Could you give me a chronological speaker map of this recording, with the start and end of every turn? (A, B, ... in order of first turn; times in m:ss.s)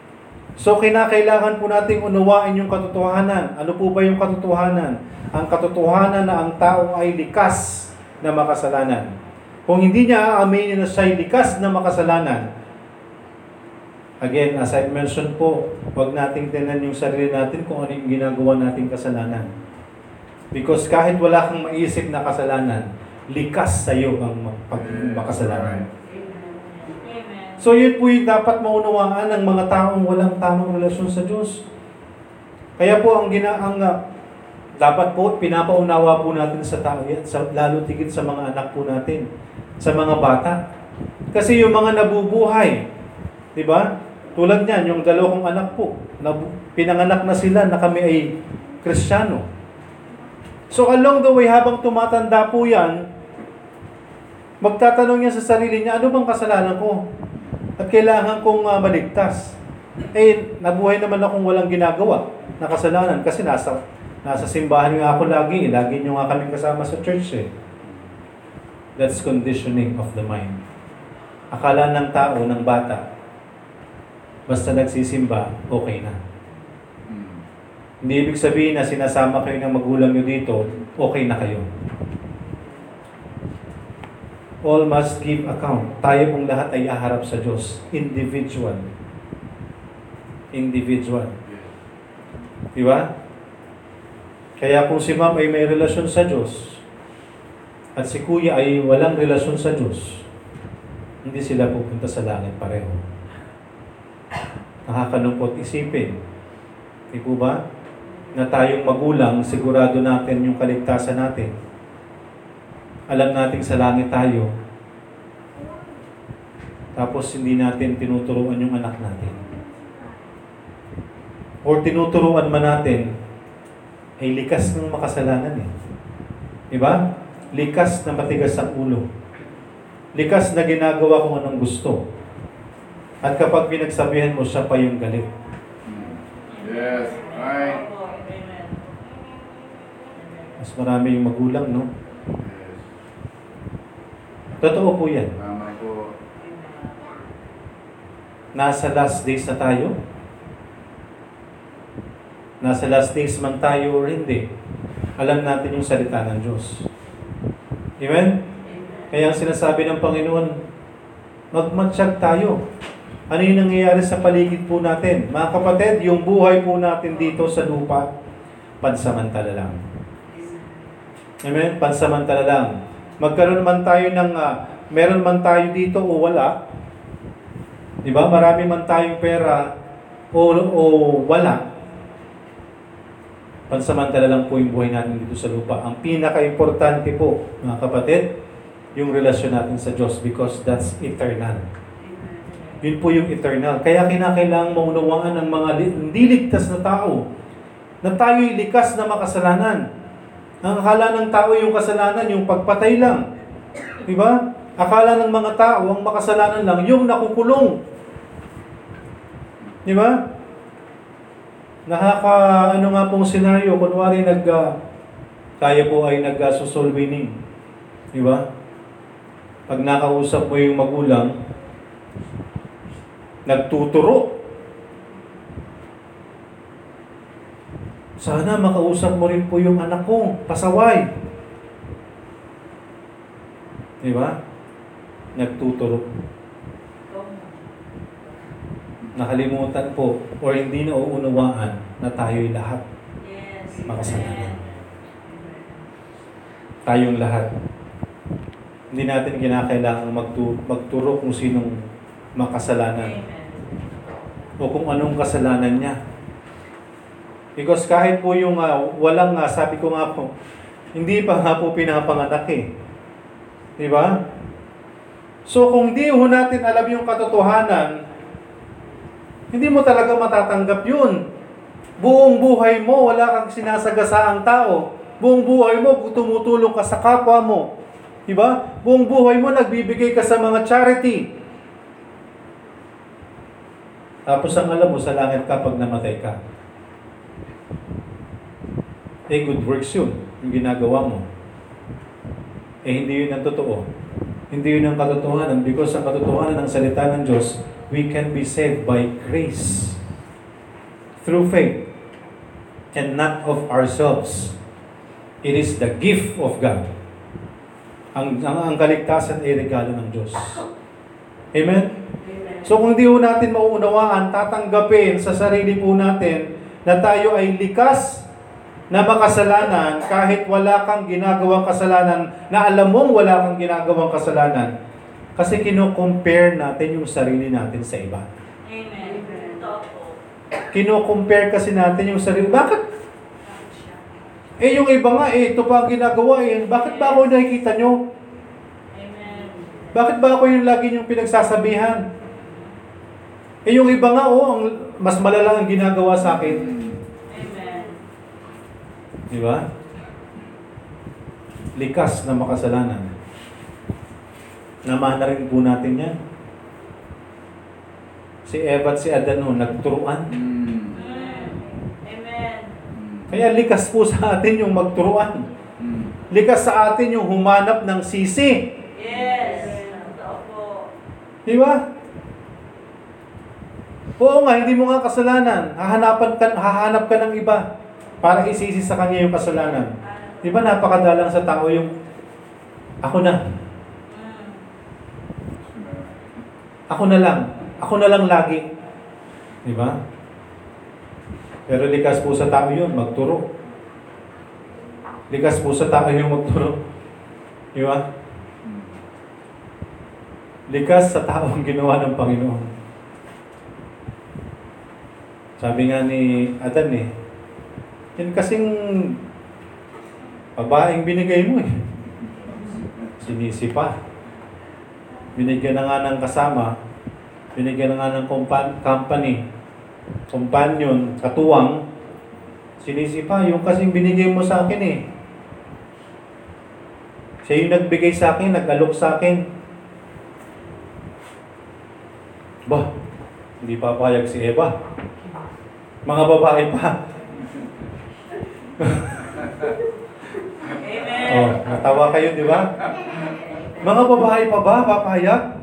0:00.6-0:09.1 A
0:09.7-0:12.4 A
0:14.2-0:19.5 A
0:20.5-0:25.8 A
0:24.7-0:25.9 B
0:26.3-0:27.6 C
0:27.6-0:31.6 A
0:32.8-0:34.0 A
0:34.8-0:39.2 A
0:39.8-0:40.6 A
0:41.3-0:42.8 A
0:43.5-0:49.4 A
0:50.7-0:53.0 A
0:54.6-0:57.0 A
0:57.8-0:59.5 A
1:00.1-1:07.5 A
1:07.8-1:08.1 B
1:09.0-1:10.6 A
1:11.5-1:13.0 A
1:14.5-1:16.2 A
1:17.1-1:17.4 B
1:18.0-1:21.7 A
1:24.6-1:28.8 A
1:30.5-1:31.3 A
1:31.4-1:31.8 B
1:32.7-1:33.1 A
1:34.6-1:36.8 A
1:38.0-1:40.2 A
1:41.2-1:43.0 A
1:44.9-1:46.2 A
1:47.1-1:47.6 A
1:48.3-1:51.5 A
1:53.1-1:54.5 A
1:57.0-1:59.4 A
2:01.6-2:03.1 A
2:04.2-2:05.7 A
2:06.7-2:07.0 A
2:07.5-2:09.0 A
2:10.1-2:12.0 A
2:13.2-2:15.3 A
2:15.8-2:17.8 B
2:16.5-2:18.8 C
2:20.6-2:21.9 A
2:22.3-2:22.8 B
2:24.6-2:25.3 A
2:25.4-2:26.1 B
2:26.4-2:27.0 C
2:28.5-2:29.9 A
2:32.6-2:34.4 A
2:35.2-2:36.9 A
2:38.0-2:38.4 A
2:39.1-2:40.6 A
2:41.5-2:42.6 A
2:43.3-2:48.0 A
2:48.8-2:49.8 A
2:51.4-2:56.5 A
2:58.0-2:59.7 A
3:00.3-3:01.6 A
3:03.7-3:08.3 A
3:08.9-3:11.6 A
3:12.1-3:12.8 C
3:12.8-3:17.2 A
3:18.0-3:19.8 A
3:20.6-3:23.2 A
3:24.1-3:27.7 A
3:29.8-3:30.2 A
3:31.9-3:34.7 A
3:35.6-3:37.3 A
3:38.1-3:38.4 A
3:39.7-3:41.3 A
3:43.4-3:44.3 A
3:48.2-3:51.0 A
3:54.0-3:54.4 A
3:55.4-3:56.0 A
3:57.1-3:57.7 C
3:59.2-4:02.8 A
4:03.2-4:04.8 C
4:03.9-4:04.6 A
4:06.8-4:07.5 A
4:08.9-4:11.8 A
4:12.4-4:13.2 A
4:13.0-4:14.2 C
4:14.6-4:16.0 A
4:17.6-4:20.3 A
4:20.9-4:22.6 A
4:23.8-4:24.2 A
4:25.5-4:28.0 A
4:29.5-4:31.2 A
4:32.0-4:37.7 A
4:38.3-4:41.2 A
4:44.3-4:46.4 A
4:49.3-4:51.2 A
4:52.8-4:53.8 A
4:54.5-5:00.0 A
5:01.2-5:01.8 A
5:02.9-5:04.5 A
5:05.4-5:06.8 A
5:08.1-5:10.6 A
5:11.5-5:11.9 A
5:12.6-5:18.2 A
5:18.9-5:24.7 A
5:25.4-5:28.3 A
5:28.6-5:30.1 C
5:30.7-5:32.8 A
5:34.6-5:38.0 A
5:38.9-5:39.9 C
5:39.9-5:42.0 A
5:43.6-5:46.6 A
5:46.2-5:47.0 B
5:47.3-5:48.0 C
5:49.3-5:49.6 A
5:51.8-5:53.1 A
5:54.8-5:56.1 A
5:58.4-6:00.3 A
6:00.3-6:01.1 B
6:00.9-6:02.7 C
6:02.9-6:03.3 B
6:03.3-6:05.4 A
6:05.8-6:06.2 B
6:06.3-6:08.6 A
6:08.9-6:10.9 C
6:11.5-6:11.8 A
6:14.2-6:17.6 A
6:18.2-6:21.9 A
6:23.0-6:23.4 A
6:24.1-6:24.6 C
6:25.6-6:26.4 B
6:26.9-6:28.6 A
6:29.6-6:30.0 A
6:31.7-6:33.4 A
6:35.3-6:36.8 A
6:37.7-6:38.0 A
6:38.6-6:39.0 B
6:40.7-6:42.7 A
6:45.6-6:47.1 A
6:48.2-6:49.1 A
6:50.6-6:51.7 A
6:53.2-6:53.9 A
6:55.4-6:56.7 A
6:57.6-6:59.4 A
7:00.3-7:01.8 A
7:02.8-7:05.0 A
7:07.4-7:09.4 A
7:13.6-7:14.7 A
7:16.0-7:17.0 A
7:18.8-7:19.3 A
7:20.8-7:22.1 C
7:21.2-7:22.7 A
7:23.8-7:25.4 A